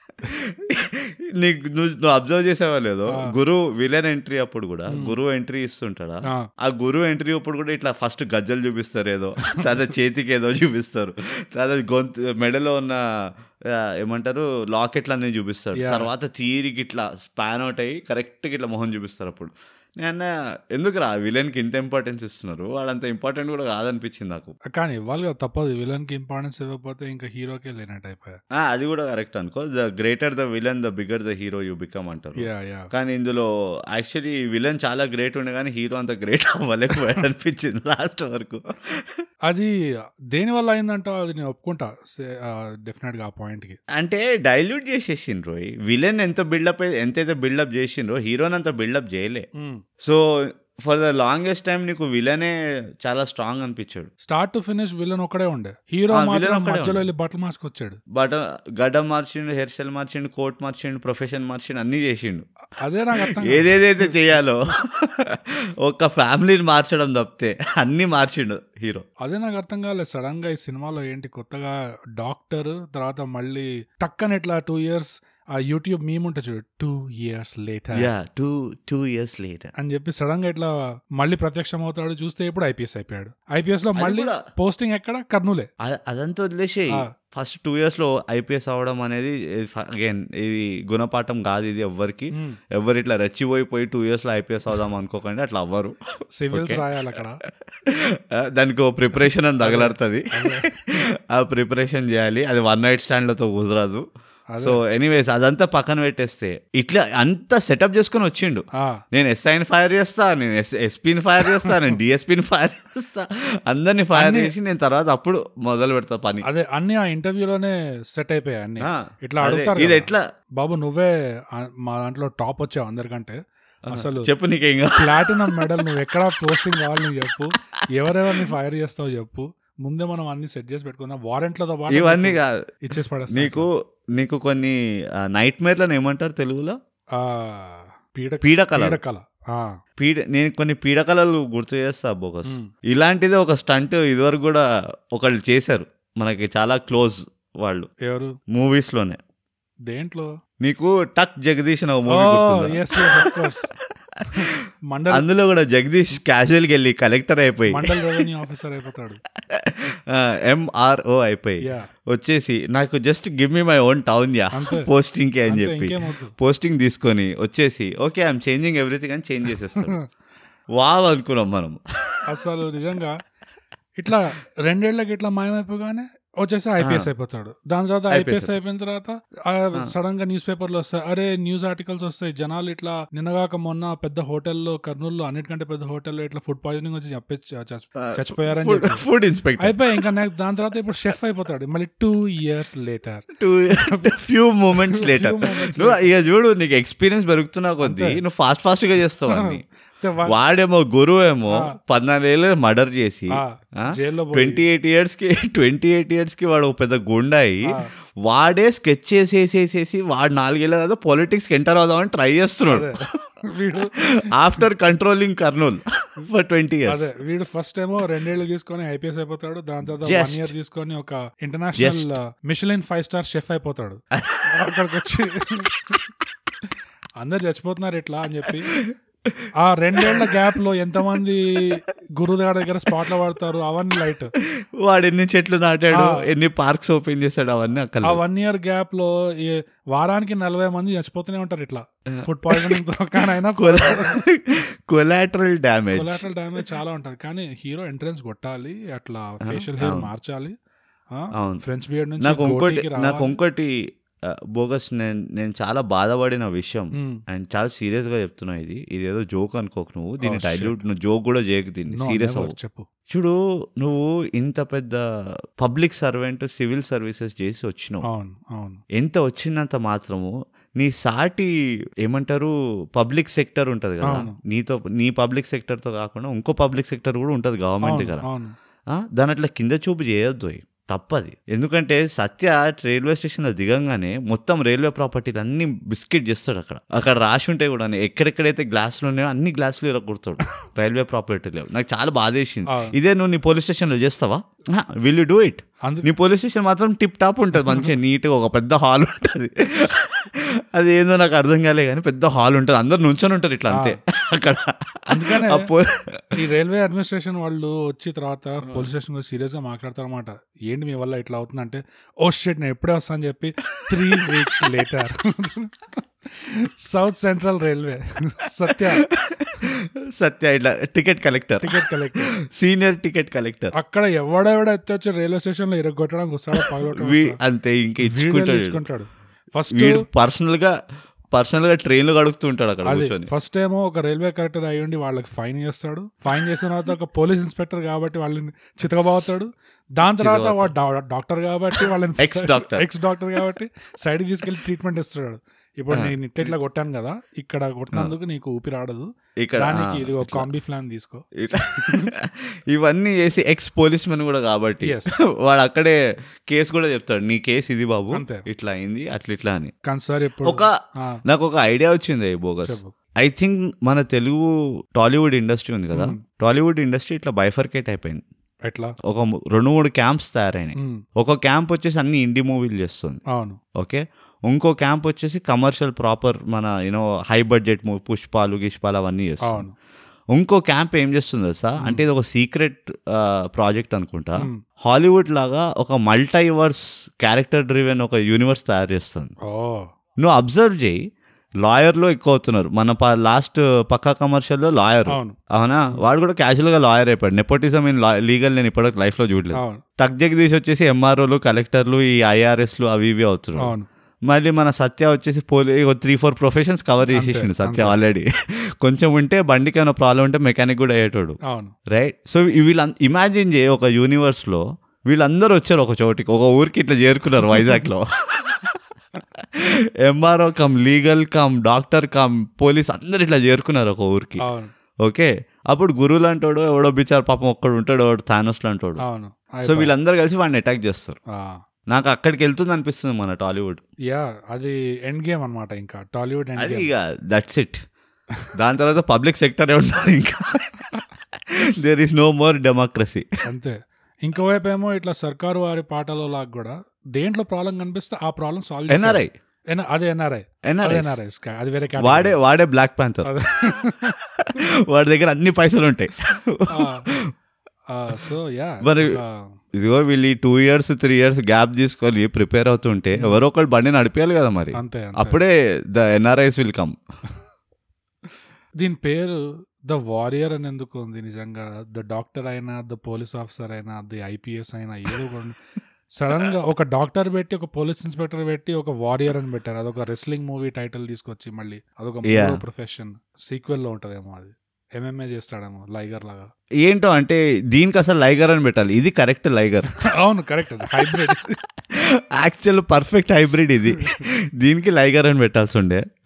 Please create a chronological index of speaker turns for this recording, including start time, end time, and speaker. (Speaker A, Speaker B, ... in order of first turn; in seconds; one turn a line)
Speaker A: 0.3-13.0
Speaker B: 3.1-3.3
Speaker A: 13.7-24.5
Speaker B: 15.8-16.1
Speaker B: 24.7-28.4
Speaker A: 28.6-39.1
Speaker B: 32.4-32.9
Speaker B: 40.3-43.8
Speaker A: 43.9-49.5
Speaker B: 49.6-49.8
Speaker A: 50.0-54.1
Speaker B: 54.2-58.0
Speaker A: 56.1-57.1
Speaker A: 58.1-62.5
Speaker B: 62.8-64.4
Speaker A: 63.2-69.1
Speaker B: 69.2-78.1
Speaker A: 78.0-79.7
Speaker B: 79.8-85.7
Speaker A: 84.0-84.4
Speaker A: 85.8-95.9
Speaker B: 92.3-92.6
Speaker B: 96.4-97.4
Speaker A: 96.5-96.8
Speaker A: 97.9-100.7
Speaker B: 99.6-101.0
Speaker A: 101.3-104.0
Speaker B: 104.5-104.8
Speaker A: 104.6-116.4
Speaker B: 114.2-114.5
Speaker B: 116.5-124.3
Speaker A: 118.8-120.2
Speaker A: 123.9-125.8
Speaker B: 125.0-133.7
Speaker A: 131.9-132.7
Speaker A: 133.3-136.8
Speaker B: 137.2-139.8
Speaker A: 138.4-139.0
Speaker A: 140.0-147.9
Speaker B: 148.1-148.3
Speaker A: 148.5-149.2
Speaker B: 149.9-150.3
Speaker A: 150.6-153.5
Speaker B: 152.1-153.7
Speaker A: 154.2-154.4
Speaker B: 154.3-155.3
Speaker A: 155.1-158.0
Speaker B: 157.7-159.2
Speaker A: 159.5-170.0
Speaker B: 164.5-164.9
Speaker B: 165.5-166.3
Speaker B: 169.7-170.0
Speaker A: 170.8-172.2
Speaker B: 172.3-173.2
Speaker B: 174.0-189.0
Speaker A: 176.8-177.1
Speaker A: 178.1-178.6
Speaker A: 188.0-190.0
Speaker B: 189.6-194.1
Speaker A: 193.4-199.6
Speaker B: 194.9-196.1
Speaker B: 197.8-198.2
Speaker B: 199.3-200.4
Speaker A: 200.3-212.9
Speaker B: 203.3-204.6
Speaker B: 212.7-214.3
Speaker A: 214.2-217.1
Speaker B: 216.9-225.7
Speaker A: 220.0-220.5
Speaker A: 221.8-222.2
Speaker A: 224.1-224.8
Speaker B: 227.2-228.7
Speaker A: 228.5-229.4
Speaker B: 229.6-234.3
Speaker A: 230.0-230.4
Speaker A: 234.8-238.2
Speaker B: 235.9-236.2
Speaker B: 238.0-244.2
Speaker A: 242.1-246.3
Speaker B: 245.9-250.5
Speaker A: 249.4-250.1
Speaker B: 251.1-253.3
Speaker A: 251.3-251.6
Speaker A: 252.2-253.7
Speaker A: 254.3-262.5
Speaker B: 256.9-257.2
Speaker B: 260.2-260.8
Speaker B: 261.9-262.9
Speaker A: 263.1-265.0
Speaker A: 265.6-268.0
Speaker B: 268.0-268.8
Speaker A: 269.0-271.5
Speaker A: 272.0-278.2
Speaker B: 274.0-274.4
Speaker B: 277.9-278.5
Speaker A: 278.9-306.2
Speaker B: 292.7-293.0
Speaker B: 295.8-296.1
Speaker B: 303.7-304.0
Speaker B: 305.1-305.7
Speaker B: 306.4-319.1
Speaker A: 308.6-308.9
Speaker A: 313.8-314.7
Speaker A: 318.7-321.9
Speaker B: 321.6-322.3
Speaker A: 322.5-323.7
Speaker B: 323.8-327.4
Speaker A: 326.6-328.8
Speaker B: 328.0-330.0
Speaker A: 329.7-330.7
Speaker A: 331.3-333.3
Speaker B: 332.9-352.1
Speaker A: 340.0-340.7
Speaker A: 341.8-342.9
Speaker A: 345.9-346.6
Speaker A: 349.4-350.5
Speaker A: 351.4-356.0
Speaker B: 354.8-355.2
Speaker A: 356.5-359.7
Speaker B: 358.1-358.5
Speaker B: 359.9-361.2
Speaker A: 360.4-360.7
Speaker A: 361.3-368.2
Speaker B: 362.6-362.9
Speaker B: 365.9-366.2
Speaker B: 368.7-369.0
Speaker A: 369.1-373.2
Speaker B: 370.8-371.0
Speaker B: 373.3-373.6
Speaker A: 373.8-379.6
Speaker B: 379.4-379.8
Speaker A: 380.3-389.3
Speaker B: 381.8-382.1
Speaker B: 389.5-389.9
Speaker A: 390.2-391.0
Speaker A: 391.6-403.7
Speaker B: 395.1-395.4
Speaker B: 399.6-399.8
Speaker B: 403.6-403.9
Speaker A: 404.3-408.3
Speaker B: 407.1-408.0
Speaker A: 408.8-418.8
Speaker B: 411.5-411.7
Speaker A: 419.4-424.4
Speaker B: 424.4-424.7
Speaker A: 425.0-429.0
Speaker B: 429.0-429.9
Speaker A: 429.6-431.2
Speaker B: 431.3-431.6
Speaker A: 431.9-433.8
Speaker B: 434.1-436.9
Speaker A: 436.6-437.8
Speaker A: 438.6-443.3
Speaker B: 443.5-452.4
Speaker A: 448.9-449.3
Speaker A: 450.7-451.2
Speaker A: 452.0-453.3
Speaker B: 453.2-454.2
Speaker A: 454.4-457.3
Speaker B: 456.7-457.1
Speaker B: 457.9-459.5
Speaker A: 458.8-459.2
Speaker A: 459.8-467.0
Speaker B: 463.2-463.4
Speaker B: 464.8-465.4
Speaker B: 468.8-475.6
Speaker B: 476.2-486.5
Speaker A: 482.3-482.6
Speaker A: 486.8-489.9
Speaker B: 490.1-491.6
Speaker A: 490.9-491.4
Speaker A: 491.9-496.0
Speaker B: 494.0-494.2